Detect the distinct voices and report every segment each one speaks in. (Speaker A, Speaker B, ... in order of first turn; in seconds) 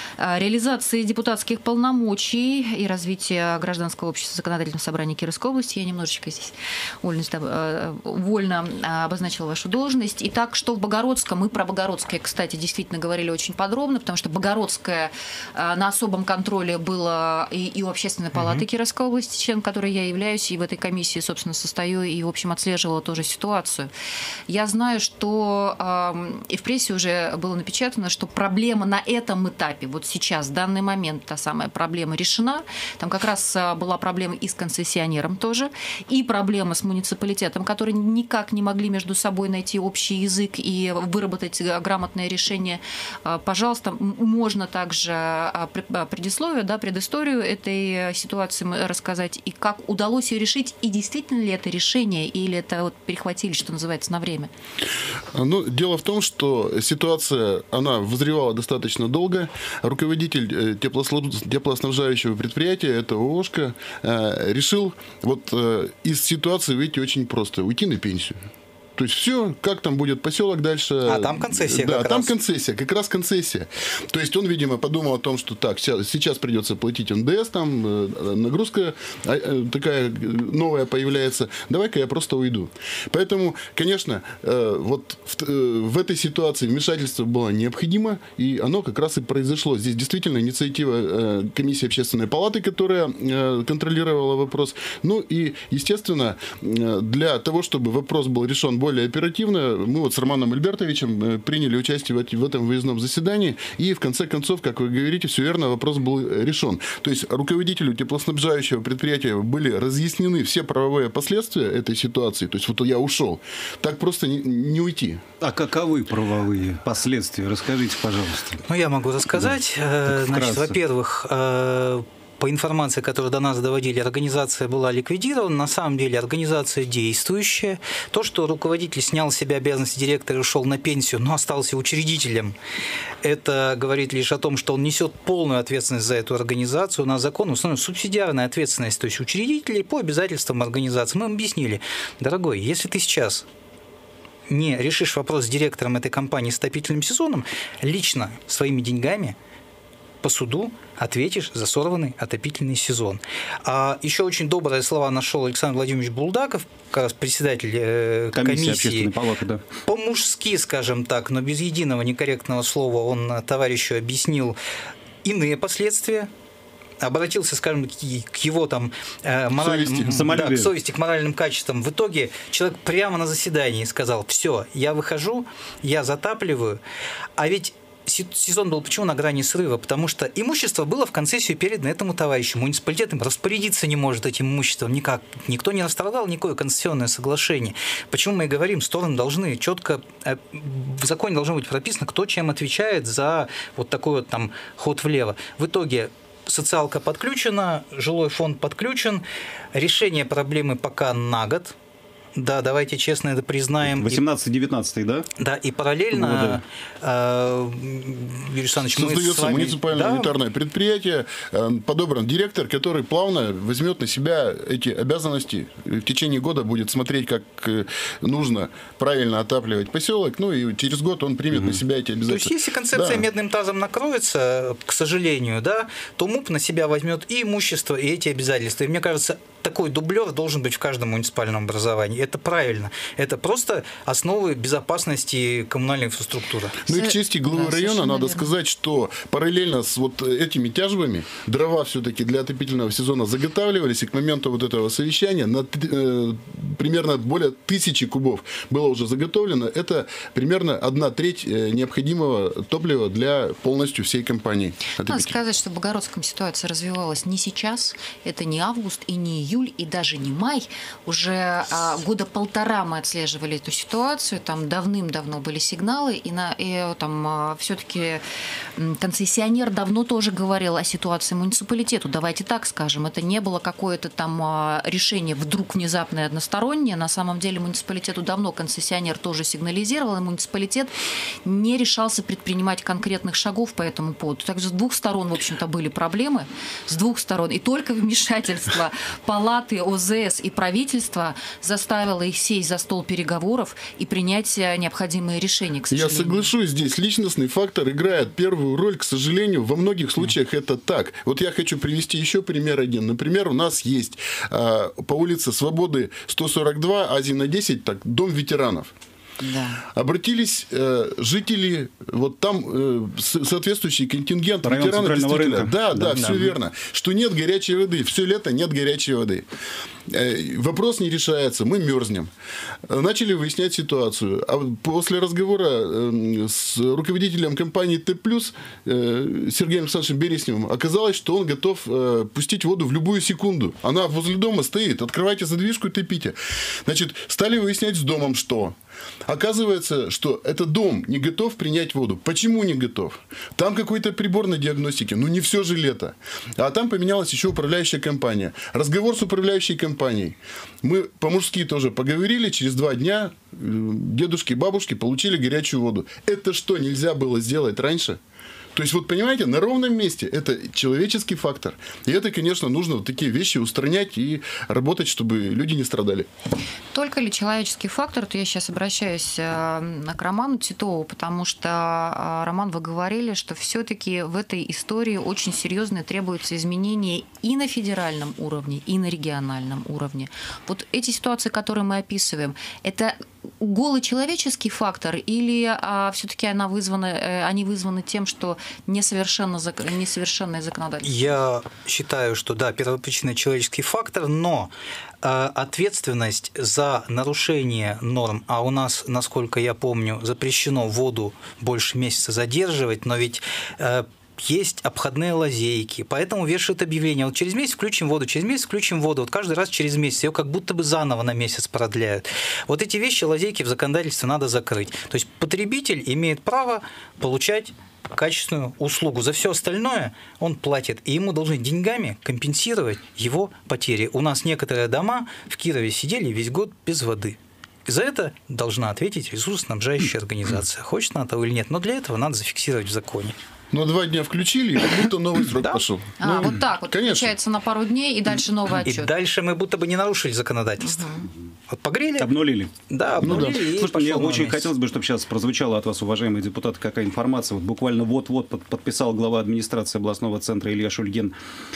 Speaker A: 0.2-23.9, 24.5-54.5, 236.8-238.5, 255.0-268.2, 268.8-280.9, 281.4-296.5, 309.4-309.8, 366.9-391.3, 436.2-439.1, 440.8-441.3
Speaker B: 18.3-18.6, 71.0-72.3, 118.7-132.5, 133.2-143.5, 144.5-149.3, 150.2-159.1, 159.8-164.6, 165.2-166.3, 167.0-176.8, 177.4-201.7, 202.3-204.2, 205.4-210.3, 222.3-236.8, 316.1-316.4, 391.0-394.7, 395.2-433.4, 438.8-442.3, 442.9-444.7
Speaker C: 55.3-68.3, 69.0-115.2, 208.8-223.2, 236.8-255.3, 295.9-308.9, 309.9-319.4, 320.1-322.3, 322.9-358.2, 358.7-366.3, 433.7-437.3, 443.2-443.6
Speaker D: 115.4-118.6, 120.1-120.8, 158.3-159.6, 169.6-170.7, 203.8-205.3, 206.1-206.6, 314.6-316.5, 442.2-451.3